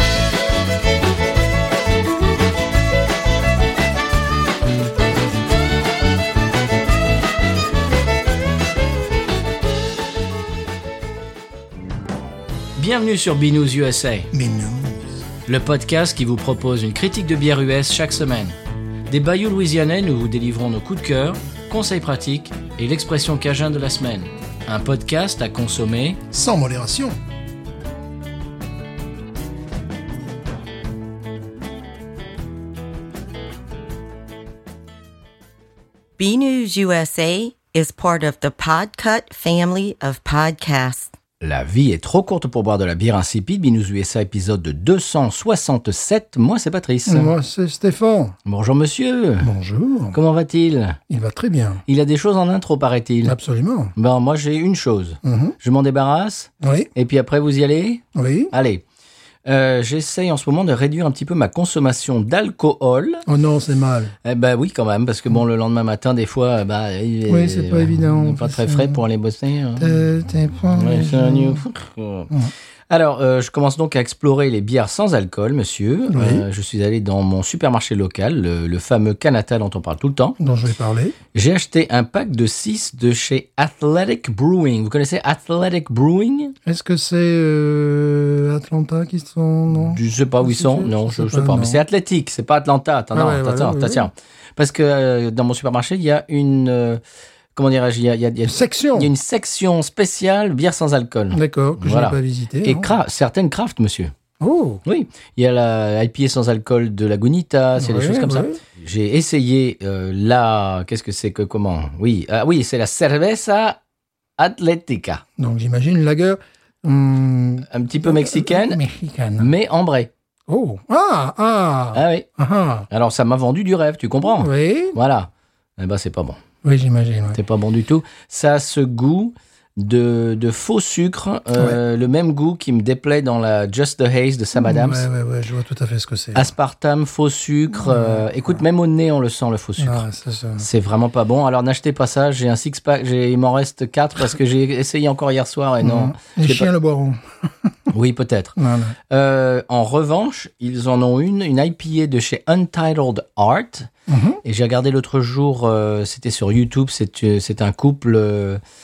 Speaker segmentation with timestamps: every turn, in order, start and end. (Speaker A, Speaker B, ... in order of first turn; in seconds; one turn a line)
Speaker A: 12.8-14.3
Speaker B: 14.3-15.1
Speaker A: 15.5-18.6
Speaker A: 19.1-26.2
Speaker B: 26.3-27.2
Speaker C: 36.2-41.1
Speaker A: 41.4-47.3
Speaker B: 47.0-48.4
Speaker A: 48.5-49.5
Speaker B: 49.4-50.2
Speaker A: 50.1-51.0
Speaker B: 51.1-51.8
Speaker A: 51.9-53.4
Speaker B: 53.2-53.9
Speaker A: 54.0-58.8
Speaker B: 55.2-55.5
Speaker B: 56.6-56.9
Speaker B: 58.1-58.5
Speaker A: 59.5-63.2
Speaker B: 63.2-64.1
Speaker A: 64.2-70.0
Speaker B: 67.3-69.0
Speaker B: 69.8-71.6
Speaker A: 70.7-72.3
Speaker A: 72.9-80.4
Speaker B: 76.1-76.4
Speaker B: 80.4-81.2
Speaker A: 81.3-86.5
Speaker B: 86.6-91.8
Speaker A: 89.7-97.0
Speaker B: 93.1-94.1
Speaker A: 97.5-104.1
Speaker B: 98.5-99.1
Speaker B: 101.3-102.9
Speaker B: 104.4-104.8
Speaker A: 104.8-113.8
Speaker B: 107.8-108.6
Speaker A: 114.4-115.2
Speaker B: 115.4-119.5
Speaker A: 117.7-118.8
Speaker A: 119.4-120.1
Speaker B: 120.5-122.9
Speaker A: 121.9-122.3
Speaker A: 122.9-126.4
Speaker B: 124.4-125.0
Speaker B: 126.6-127.4
Speaker A: 127.3-135.0
Speaker B: 134.6-136.5
Speaker A: 136.3-140.0
Speaker B: 137.8-138.3
Speaker B: 139.8-140.7
Speaker A: 140.6-146.7
Speaker B: 145.8-147.7
Speaker A: 147.9-148.6
Speaker B: 148.6-148.9
Speaker A: 149.1-153.9
Speaker B: 154.1-154.4
Speaker A: 154.4-158.6